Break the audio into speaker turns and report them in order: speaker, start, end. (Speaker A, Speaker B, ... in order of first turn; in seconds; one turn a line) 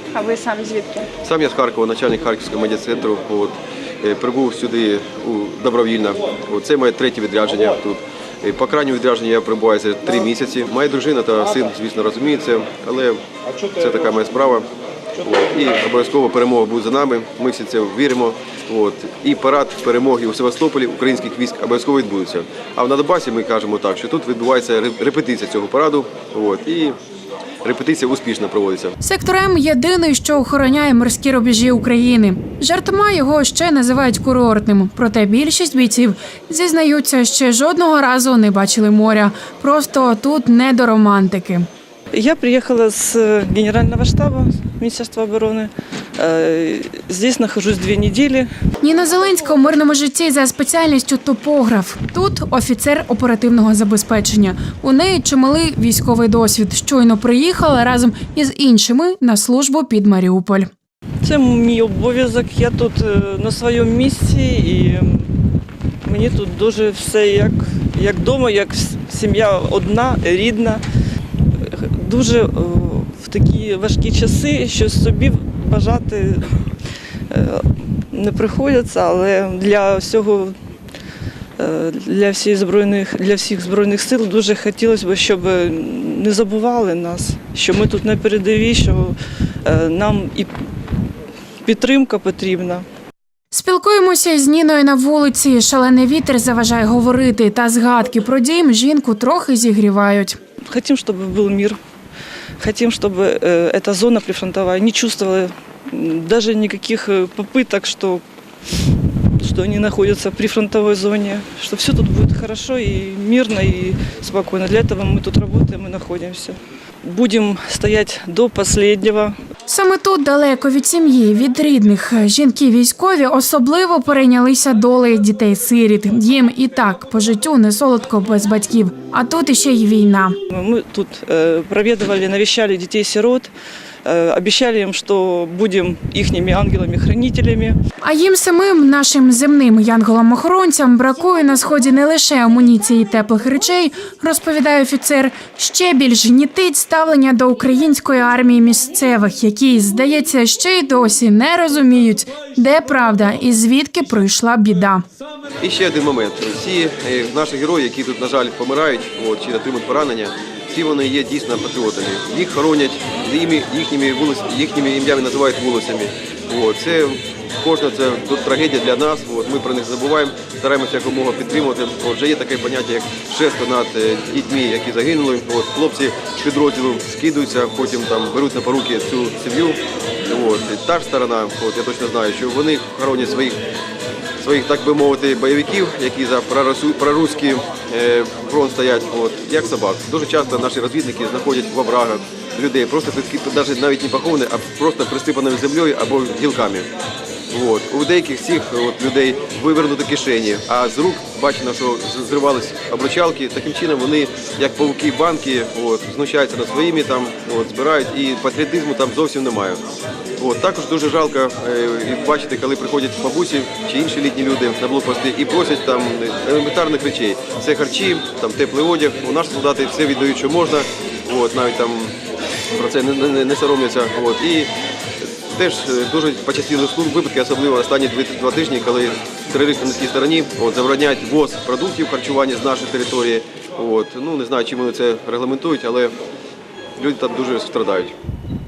Speaker A: 1.2-13.2
Speaker A: 13.7-14.7
Speaker A: 15.2-27.0
Speaker A: 27.6-28.9
Speaker B: 29.0-41.7
Speaker C: 42.1-48.5
Speaker B: 48.8-60.7
Speaker C: 61.2-65.3
Speaker C: 66.0-70.8
Speaker C: 71.6-76.6
Speaker C: 77.3-80.5
Speaker C: 81.6-90.5
Speaker C: 91.6-92.8
Speaker B: 93.5-100.4
Speaker C: 100.7-101.8
Speaker C: 102.6-108.2
Speaker C: 109.4-119.3
Speaker B: 119.7-130.4
Speaker C: 130.5-133.5
Speaker C: 134.1-137.8
Speaker B: 138.0-155.0
Speaker A: 155.6-183.6
Speaker A: 184.4-196.9
Speaker A: 197.5-209.8
Speaker A: 210.4-222.1
Speaker A: 222.7-224.7
Speaker A: 225.5-236.1
Speaker A: 237.0-238.1